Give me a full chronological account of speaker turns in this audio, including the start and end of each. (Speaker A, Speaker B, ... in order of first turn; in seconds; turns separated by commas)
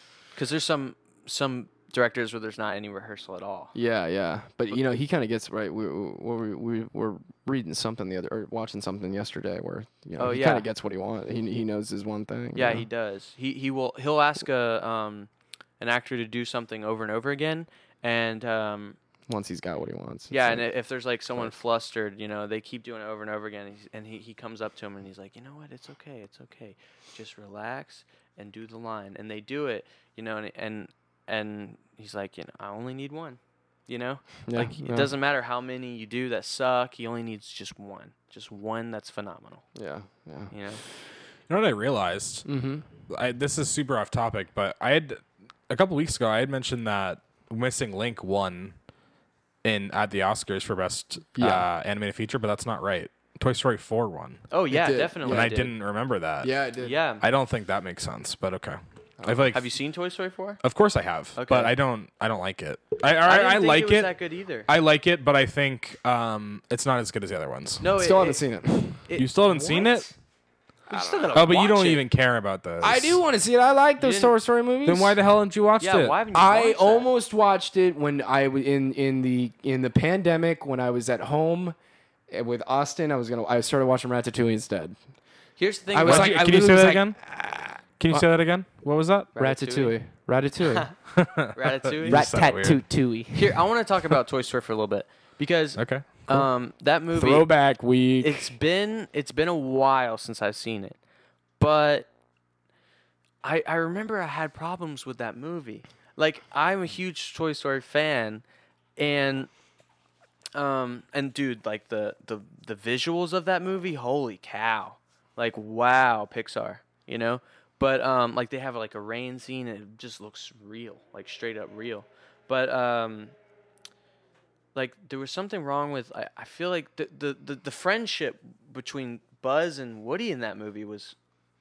Speaker A: 0.3-3.7, Speaker B: 3.7-12.9, Speaker A: 10.2-10.7, Speaker A: 12.5-15.3, Speaker A: 15.8-19.0, Speaker B: 19.3-20.6, Speaker A: 20.3-39.6, Speaker B: 34.5-35.1, Speaker B: 39.7-40.5, Speaker A: 40.5-40.8, Speaker C: 41.5-42.5, Speaker B: 42.4-42.9, Speaker C: 43.1-48.8, Speaker C: 49.6-54.4, Speaker B: 51.4-51.6, Speaker A: 54.5-55.7, Speaker B: 54.7-55.5, Speaker C: 55.2-56.5, Speaker B: 56.4-57.0, Speaker A: 56.8-57.2, Speaker C: 57.2-59.6, Speaker B: 59.2-59.5, Speaker A: 59.5-60.6, Speaker C: 60.6-64.1, Speaker A: 61.3-61.7, Speaker A: 63.2-64.7, Speaker C: 64.7-67.9, Speaker A: 67.8-68.4, Speaker B: 68.0-69.0, Speaker A: 69.0-70.1, Speaker C: 69.2-70.1, Speaker B: 70.9-71.5, Speaker A: 70.9-72.0, Speaker C: 71.3-73.2, Speaker B: 72.8-75.2, Speaker A: 74.0-74.3, Speaker C: 74.8-76.2, Speaker A: 75.8-77.1, Speaker B: 76.3-81.7, Speaker B: 82.3-85.0, Speaker A: 85.6-86.3, Speaker B: 85.9-88.3, Speaker C: 86.0-87.3, Speaker C: 88.0-89.3, Speaker A: 89.3-89.9, Speaker B: 89.4-90.9, Speaker C: 91.1-92.9, Speaker A: 91.5-92.3, Speaker B: 92.0-93.6, Speaker A: 93.3-97.5, Speaker C: 95.8-96.2, Speaker B: 97.1-98.5, Speaker A: 98.2-101.0, Speaker A: 101.6-102.1, Speaker A: 103.4-108.4, Speaker A: 109.0-109.5, Speaker A: 110.5-123.3, Speaker A: 124.7-131.1